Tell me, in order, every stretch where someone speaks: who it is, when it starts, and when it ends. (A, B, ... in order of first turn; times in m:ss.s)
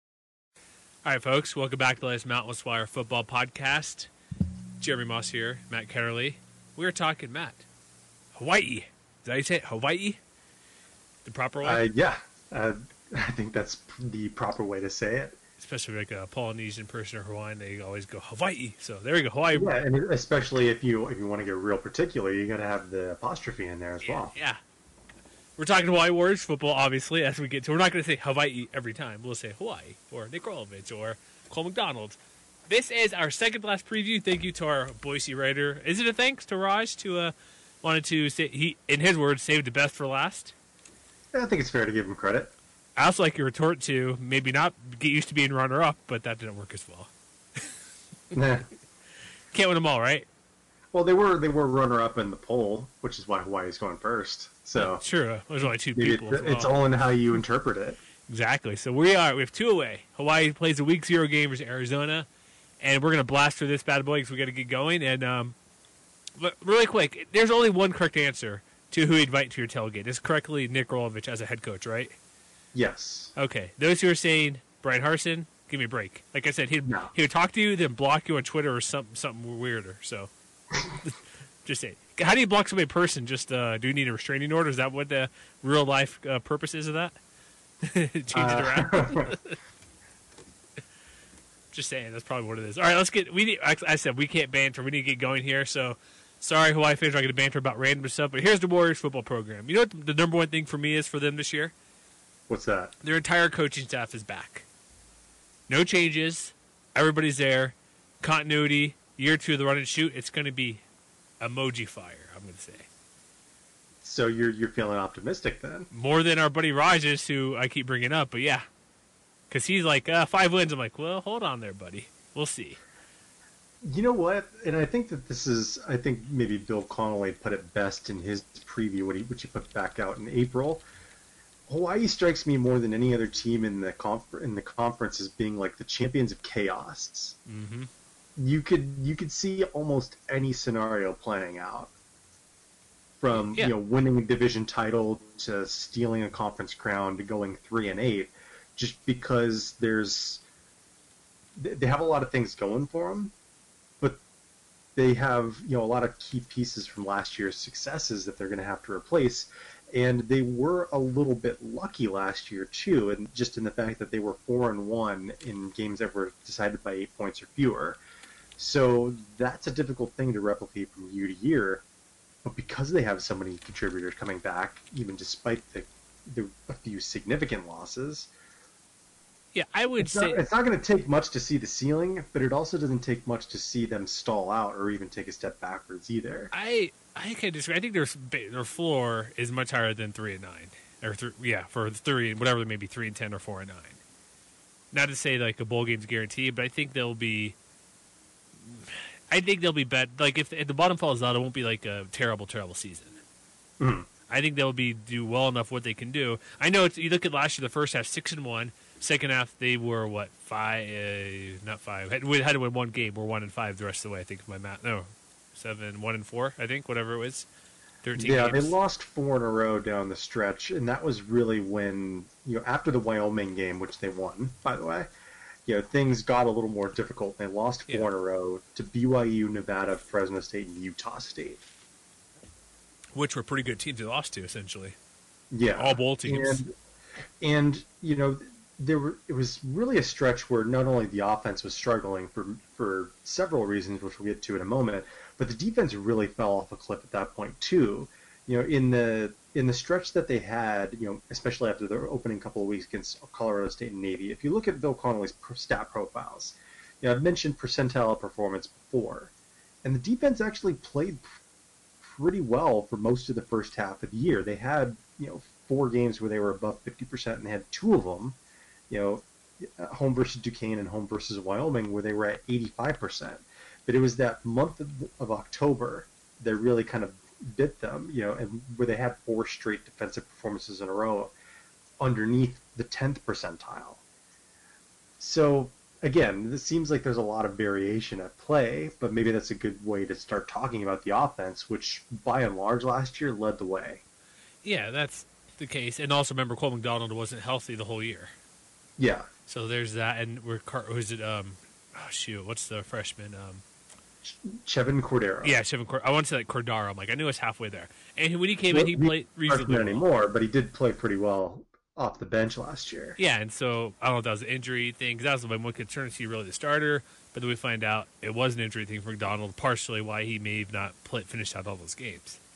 0:01.0-0:04.1 A
0:04.8-0:07.6 A
0:08.4-0:10.2 A
0:11.2-0:11.8 A
0:11.6-0:15.4 B
0:15.6-0:19.8 A
0:19.5-0:24.3 B
0:24.0-0:24.6 A
0:25.6-0:40.5 A
0:41.3-0:42.5 B
0:43.0-0:47.7 A
0:48.3-0:48.7 B
0:49.5-0:50.3 A
0:50.9-0:55.0 B
0:54.8-0:56.8 A
0:56.0-0:58.0 B
0:58.3-1:02.3 A
1:02.8-1:05.6 A
1:06.4-1:12.2 A
1:12.7-1:13.3 B
1:13.4-1:20.3 A
1:16.9-1:17.1 B
1:21.0-1:27.2 A
1:27.8-1:29.6 A
1:28.3-1:29.4 B
1:31.7-1:41.7 A
1:42.5-1:42.9 B
1:43.0-1:44.7 A
1:45.7-1:50.8 A
1:51.4-1:52.9 A
1:54.0-1:55.9 B
1:55.9-1:58.7 A
1:59.5-2:02.8 A
2:03.8-2:10.8 B
2:11.7-2:17.4 B
2:17.5-2:17.9 A
2:18.4-2:21.9 B
2:23.2-2:30.4 B
2:23.3-2:23.7 A
2:31.6-2:33.3 B
2:35.0-2:48.0 B
2:48.6-2:51.8 B
2:52.4-2:58.3 B
2:59.5-3:00.4 A
3:00.0-3:06.5 B
3:06.5-3:14.0 A
3:14.9-3:17.6 A
3:18.7-3:23.2 A
3:23.8-3:24.1 B
3:24.3-3:37.5 A
3:38.0-3:38.8 A
3:38.2-3:45.1 B
3:45.7-3:51.6 B
3:53.2-3:55.0 A
3:55.5-3:56.7 B
3:55.8-3:56.6 A
3:57.4-4:19.3 B
4:19.8-4:21.2 B
4:22.0-4:28.4 B
4:28.9-4:41.3 B
4:42.0-4:44.0 B
4:45.2-4:54.0 B
4:54.6-4:58.3 A
4:59.0-4:59.3 B
4:59.5-5:03.6 A
5:04.2-5:05.6 B
5:05.4-5:10.0 A
5:08.7-5:13.2 B
5:13.2-5:22.4 A